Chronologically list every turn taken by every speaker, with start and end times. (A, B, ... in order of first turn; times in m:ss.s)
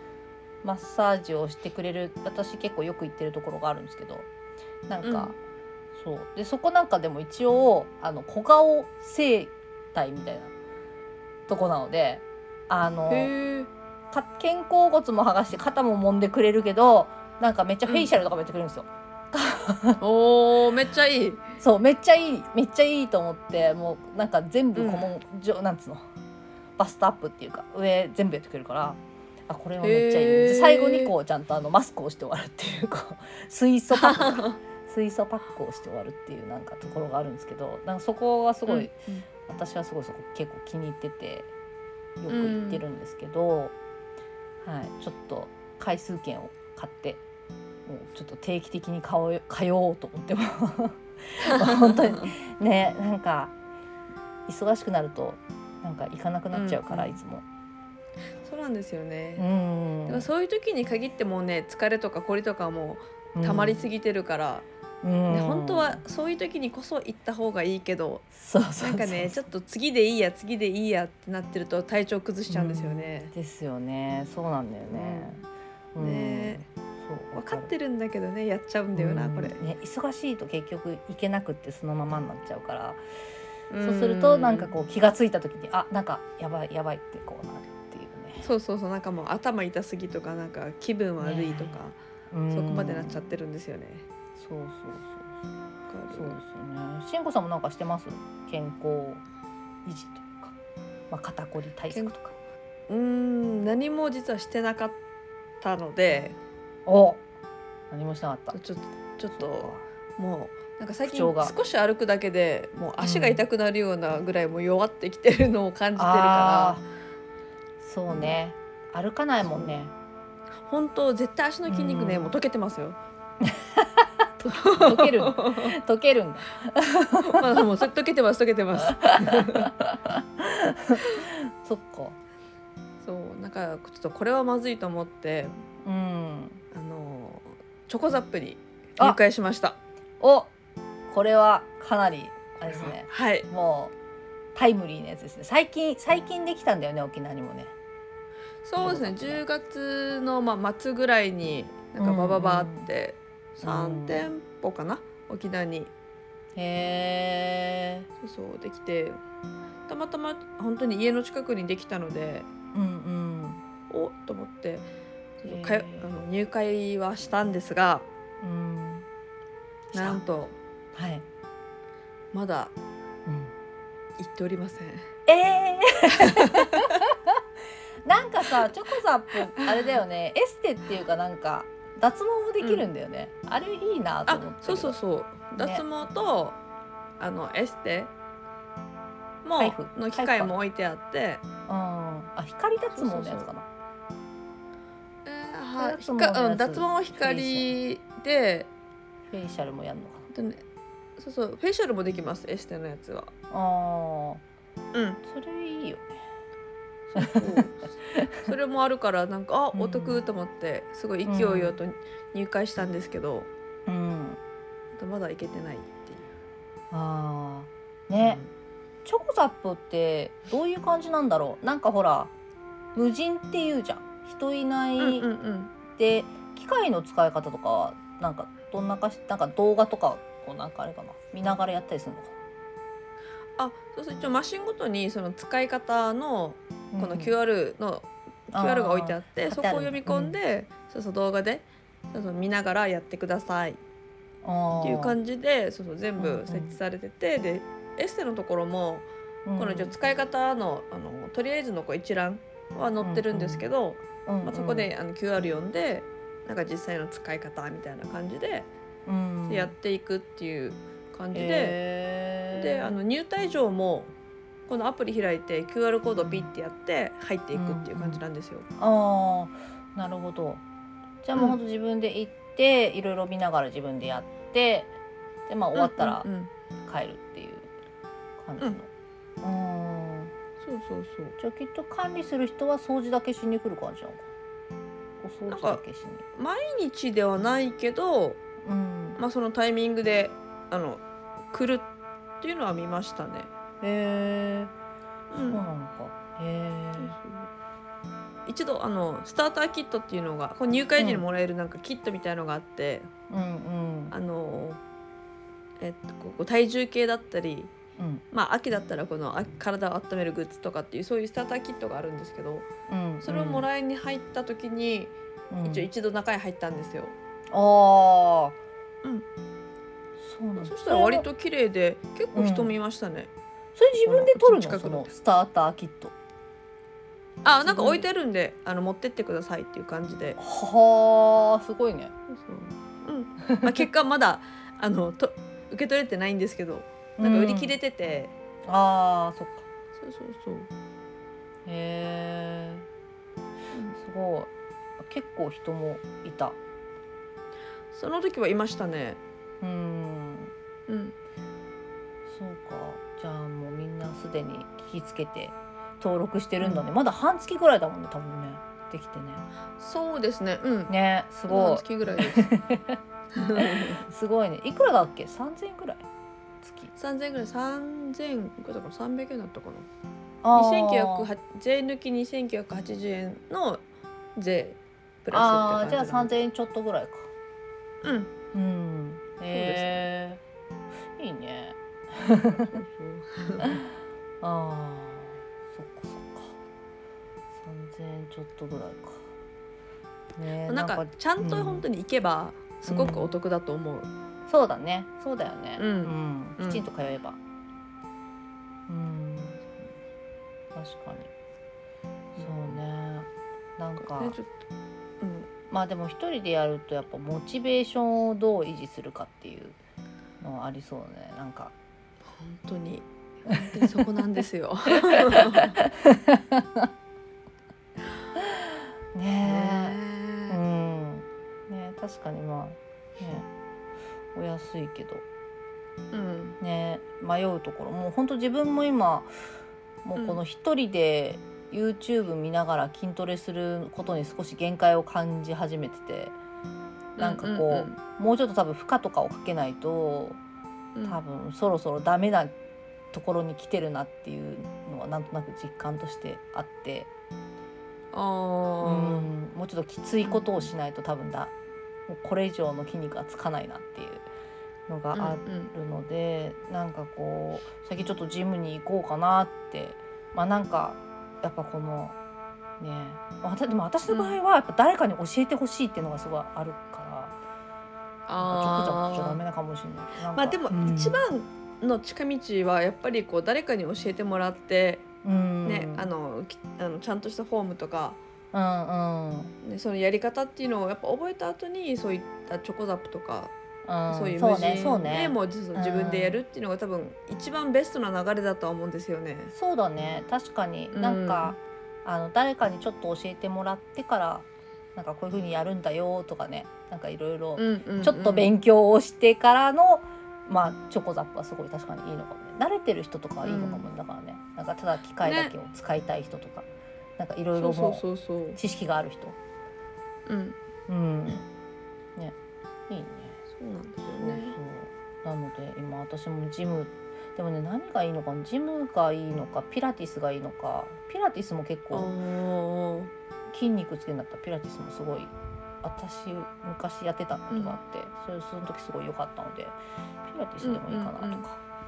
0:00.6-0:04.3 A
0:04.9-0:05.4 A
0:05.0-0:05.3 B
0:06.0-0:10.5 A
0:11.5-0:13.3 A
0:13.1-0:13.7 B
0:14.1-0:20.0 A
0:20.0-0:21.4 B
0:21.6-0:26.0 A
0:24.8-0:25.1 B
0:26.8-0:41.5 A
0:29.8-0:31.1 B
0:33.9-0:34.6 B
0:38.7-0:39.3 B
0:42.2-0:43.7 A
0:42.3-0:42.8 B
0:44.6-0:47.2 A
0:47.9-0:53.5 A
0:51.7-0:52.3 B
0:54.5-0:57.5 A
0:56.5-0:57.2 B
0:58.4-0:59.5 B
0:59.4-1:00.3 A
1:00.1-1:04.7 B
1:03.4-1:03.9 A
1:05.0-1:06.0 A
1:05.3-1:08.2 B
1:08.4-1:09.5 A
1:08.8-1:13.3 B
1:12.5-1:15.4 A
1:14.8-1:15.4 B
1:16.0-1:17.7 A
1:16.0-1:16.7 B
1:17.3-1:19.6 B
1:18.9-1:23.0 A
1:23.7-1:24.7 B
1:23.8-1:28.5 A
1:28.4-1:32.0 B
1:31.2-1:31.8 A
1:32.3-1:33.3 A
1:32.5-1:34.1 B
1:34.4-1:35.3 A
1:35.9-1:36.4 B
1:36.1-1:39.2 A
1:39.8-1:40.6 A
1:41.1-1:42.4 A
1:42.9-1:45.0 B
1:45.6-1:46.4 B
1:46.9-1:47.2 A
1:47.9-1:48.6 A
1:48.5-1:56.8 B
1:49.3-1:49.9 A
1:51.0-1:51.6 A
1:53.0-1:53.4 A
1:56.0-1:56.8 A
1:57.8-1:59.9 A
1:58.1-1:58.4 B
1:59.4-1:59.8 B
2:00.6-2:03.0 B
2:01.7-2:02.4 A
2:03.5-2:07.2 A
2:04.5-2:05.8 B
2:07.2-2:09.7 B
2:09.0-2:12.2 A
2:13.0-2:15.6 B
2:15.8-2:16.6 A
2:16.7-2:19.8 B
2:20.2-2:20.5 A
2:21.1-2:23.9 A
2:22.6-2:23.5 B
2:24.6-2:27.7 A
2:28.6-2:35.9 B
2:28.8-2:29.4 A
2:32.0-2:32.9 A
2:33.6-2:34.3 A
2:36.6-2:38.1 A
2:38.2-2:39.2 B
2:39.9-2:42.5 B
2:42.7-2:43.6 A
2:43.9-2:44.9 B
2:45.4-2:48.1 B
2:45.5-2:46.1 A
2:48.4-2:49.1 A
2:49.9-2:50.2 A
2:49.9-2:50.6 B
2:51.0-2:51.2 A
2:52.3-2:52.7 B
2:53.3-2:53.5 A
2:54.2-2:55.1 B
2:55.3-2:57.0 A
2:56.5-2:56.9 B
2:58.0-3:05.0 A
3:02.6-3:02.9 B
3:04.3-3:06.6 B
3:05.6-3:05.8 A
3:07.2-3:08.1 B
3:09.4-3:11.4 B
3:09.6-3:10.6 A
3:11.7-3:13.7 A
3:12.9-3:13.5 B
3:15.2-3:18.7 B
3:15.8-3:17.7 A
3:19.3-3:20.3 A
3:20.3-3:20.6 B
3:21.2-3:23.3 B
3:23.5-3:24.4 A
3:24.9-3:25.2 B
3:25.2-3:26.1 A
3:27.1-3:33.5 B
3:27.2-3:27.6 A
3:29.7-3:30.2 A
3:31.2-3:31.8 A
3:33.9-3:34.4 A
3:35.0-3:36.3 B
3:36.9-3:38.4 A
3:38.2-3:38.5 B
3:39.0-3:42.3 A
3:43.0-3:45.3 A
3:45.0-3:45.7 B
3:45.9-3:52.3 A
3:53.6-4:03.8 B
3:56.9-3:57.4 A
3:58.5-4:00.4 A
4:04.4-4:05.2 A
4:04.8-4:18.7 B
4:06.2-4:06.8 A
4:09.5-4:10.0 A
4:13.0-4:13.7 A
4:14.3-4:14.9 A
4:19.1-4:19.7 A
4:19.5-4:21.8 B
4:21.3-4:23.0 A
4:22.5-4:24.1 B
4:24.7-4:28.7 B
4:26.2-4:26.5 A
4:27.5-4:28.2 A
4:28.8-4:30.6 A
4:31.2-4:34.9 A
4:35.5-4:36.3 A
4:35.8-4:36.5 B
4:36.8-4:37.7 A
4:38.4-4:38.9 A
4:39.4-4:40.3 A
4:40.6-4:41.4 B
4:41.4-4:44.2 A
4:45.2-4:46.2 A
4:45.5-4:45.8 B
4:46.3-4:48.4 B
4:48.6-4:49.2 A
4:49.2-4:51.9 B
4:52.4-4:53.5 B
4:53.8-4:54.7 A
4:55.3-4:55.6 B
4:55.4-4:57.2 A
4:57.0-4:57.5 B
4:58.5-5:03.1 B
5:01.0-5:01.3 A
5:03.3-5:04.2 A
5:04.1-5:04.8 B
5:05.8-5:07.7 B
5:08.0-5:08.2 A
5:08.3-5:12.7 B
5:12.9-5:13.7 A
5:13.2-5:17.2 B
5:15.5-5:15.9 A
5:17.5-5:18.6 A
5:20.2-5:21.3 A
5:20.6-5:23.3 B
5:22.3-5:22.8 A
5:23.8-5:26.1 A
5:24.0-5:25.1 B
5:27.4-5:30.4 B
5:27.6-5:28.1 A
5:30.4-5:32.1 A
5:32.3-5:38.3 B
5:37.2-5:37.8 A
5:38.7-5:39.6 A
5:39.9-5:40.7 B
5:41.7-5:42.9 A
5:44.0-5:46.6 A
5:47.9-5:49.2 B
5:49.6-5:50.5 A
5:50.9-5:51.2 B
5:52.3-5:59.4 A
5:59.8-6:00.9 B
6:00.9-6:03.0 A
6:01.5-6:02.5 B
6:03.3-6:04.0 B
6:03.6-6:06.1 A
6:06.6-6:06.9 A
6:07.0-6:09.9 B
6:10.4-6:11.3 A
6:10.5-6:13.8 B
6:14.4-6:16.5 B
6:15.3-6:17.3 A
6:18.0-6:18.3 B
6:18.5-6:20.4 A
6:19.5-6:20.1 B
6:21.2-6:22.6 A
6:22.5-6:23.8 B
6:24.4-6:26.6 A
6:27.6-6:29.3 A
6:30.4-6:31.9 A
6:30.7-6:34.1 B
6:32.9-6:33.4 A
6:34.5-6:37.4 A
6:35.8-6:36.8 B
6:38.9-6:39.8 A
6:40.8-6:41.3 A
6:42.4-6:42.8 B
6:42.4-6:44.4 A
6:44.0-6:44.6 B
6:45.2-6:45.5 B
6:45.7-6:49.8 A
6:50.4-6:51.7 A
6:52.3-6:55.8 B
6:55.4-6:56.9 A
6:59.2-7:00.0 A
6:59.4-7:00.6 B
7:00.5-7:03.5 A
7:04.4-7:05.2 A
7:06.1-7:06.6 B
7:06.6-7:09.3 A
7:10.0-7:16.4 A
7:17.2-7:18.0 B
7:17.2-7:20.4 A
7:21.0-7:21.2 B
7:21.0-7:22.5 A
7:23.1-7:27.1 A
7:28.1-7:29.3 B
7:28.8-7:31.5 A
7:30.2-7:30.7 B
7:32.1-7:34.2 A
7:34.9-7:42.2 A
7:35.1-7:35.7 B
7:42.8-7:47.4 A
7:44.1-7:44.4 B
7:48.3-7:49.4 B
7:48.4-7:51.2 A
7:50.3-7:55.1 B
7:55.2-7:56.1 A
7:55.6-7:58.2 B
7:58.5-7:59.5 A
7:59.6-8:03.5 B
8:03.9-8:06.4 A
8:04.1-8:09.5 B
8:09.5-8:28.0 A
8:10.9-8:11.6 B
8:17.6-8:18.5 B
8:23.4-8:23.9 B
8:25.2-8:25.5 B
8:27.6-8:28.6 B
8:28.6-8:29.4 A
8:30.3-8:30.6 B
8:30.9-8:31.5 A
8:32.9-8:33.4 A
8:33.5-8:34.6 B
8:34.1-8:42.1 A
8:41.9-8:43.1 B
8:43.5-8:51.6 A
8:47.5-8:47.8 B
8:50.6-8:51.4 B